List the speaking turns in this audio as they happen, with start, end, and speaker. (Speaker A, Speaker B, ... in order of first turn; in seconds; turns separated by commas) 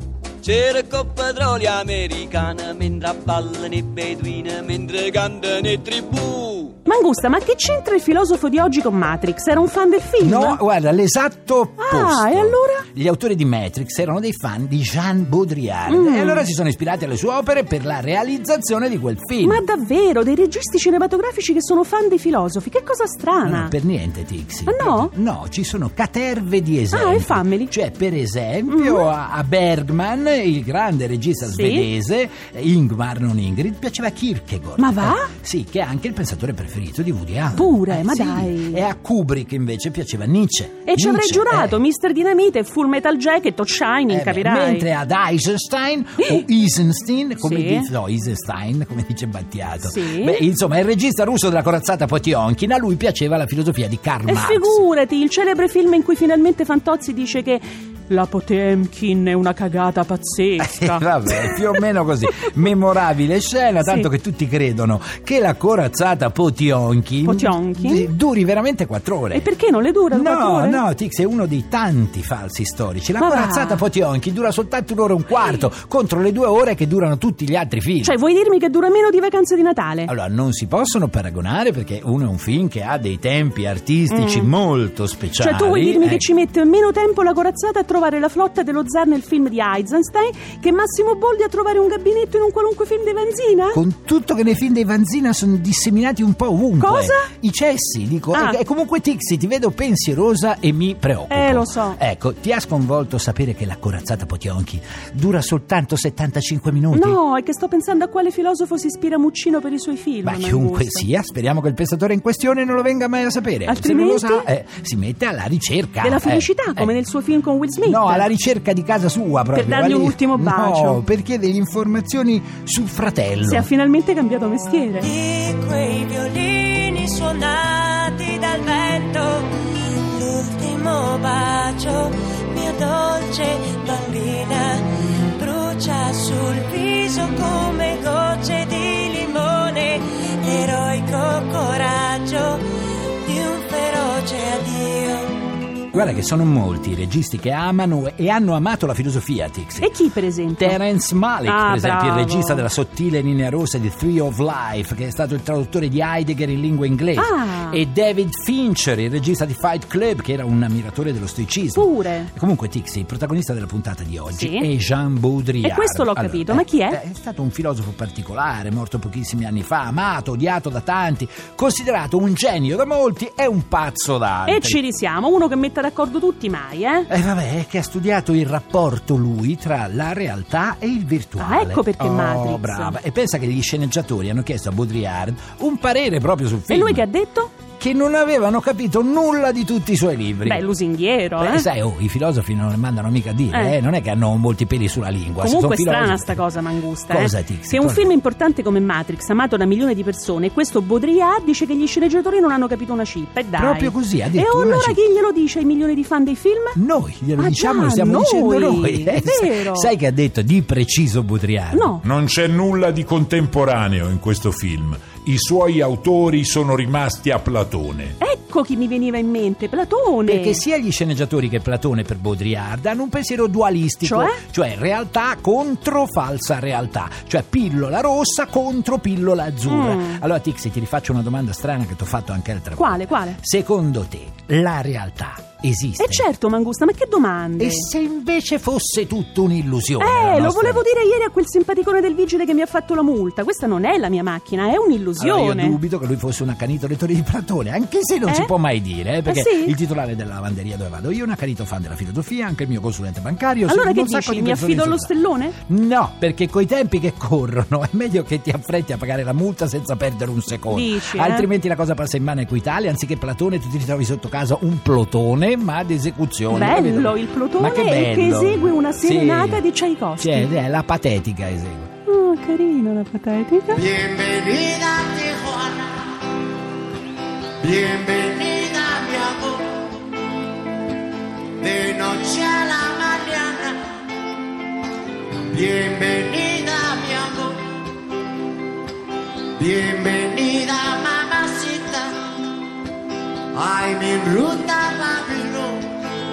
Speaker A: 0.4-6.8, Speaker B: 6.8-10.6, Speaker C: 10.2-19.6, Speaker B: 11.8-12.8, Speaker B: 15.9-16.5, Speaker B: 19.4-23.7, Speaker C: 23.4-41.8, Speaker B: 24.7-25.1, Speaker B: 26.9-27.7, Speaker B: 28.7-29.1, Speaker B: 31.4-31.9, Speaker B: 34.8-35.3, Speaker B: 37.5-38.8, Speaker B: 40.9-44.9, Speaker C: 44.1-54.8, Speaker B: 46.2-46.5, Speaker B: 47.4-47.9, Speaker B: 49.8-50.4, Speaker B: 54.2-61.8, Speaker C: 60.6-69.5, Speaker B: 63.8-64.1, Speaker B: 67.2-68.1, Speaker B: 69.3-70.8, Speaker C: 70.1-78.2, Speaker B: 73.2-73.8, Speaker B: 78.0-80.1, Speaker C: 80.1-86.2, Speaker B: 84.1-84.5, Speaker B: 85.4-93.8, Speaker C: 93.7-107.2, Speaker B: 96.8-97.3, Speaker B: 98.3-98.6, Speaker B: 101.3-102.0, Speaker B: 106.9-111.1, Speaker C: 110.2-116.9, Speaker B: 113.7-114.5, Speaker B: 116.0-118.3, Speaker C: 117.8-123.7, Speaker B: 119.5-121.0, Speaker B: 123.4-125.1, Speaker D: 125.0-142.6, Speaker D: 143.2-145.4, Speaker C: 145.9-149.9, Speaker B: 149.8-150.8, Speaker C: 150.6-174.8, Speaker B: 151.4-152.7, Speaker B: 157.2-157.8, Speaker B: 161.7-162.3, Speaker B: 164.3-164.7, Speaker B: 165.6-167.0, Speaker B: 174.5-177.1, Speaker C: 177.1-187.1, Speaker B: 181.4-183.0, Speaker B: 186.7-187.5, Speaker C: 187.8-190.6, Speaker B: 190.4-191.7, Speaker C: 191.4-196.4, Speaker B: 193.5-193.8, Speaker B: 195.4-206.8, Speaker C: 197.1-198.1, Speaker C: 203.6-205.0, Speaker C: 206.8-212.0, Speaker B: 207.3-209.9, Speaker B: 211.7-212.0, Speaker E: 212.0-218.2, Speaker B: 218.2-220.6, Speaker C: 220.2-236.3, Speaker B: 224.0-224.4, Speaker B: 229.7-230.2, Speaker B: 232.8-233.4, Speaker B: 236.0-237.9, Speaker C: 237.6-240.8, Speaker B: 240.0-245.8, Speaker C: 245.2-269.6, Speaker B: 248.3-248.5, Speaker B: 249.2-249.8, Speaker B: 253.7-255.6, Speaker B: 260.7-261.5, Speaker B: 266.5-270.5, Speaker C: 270.2-271.9, Speaker B: 272.1-273.9, Speaker F: 273.8-276.2, Speaker F: 277.6-279.9, Speaker F: 281.6-283.8, Speaker F: 285.5-287.6, Speaker F: 289.6-292.1, Speaker F: 293.5-295.8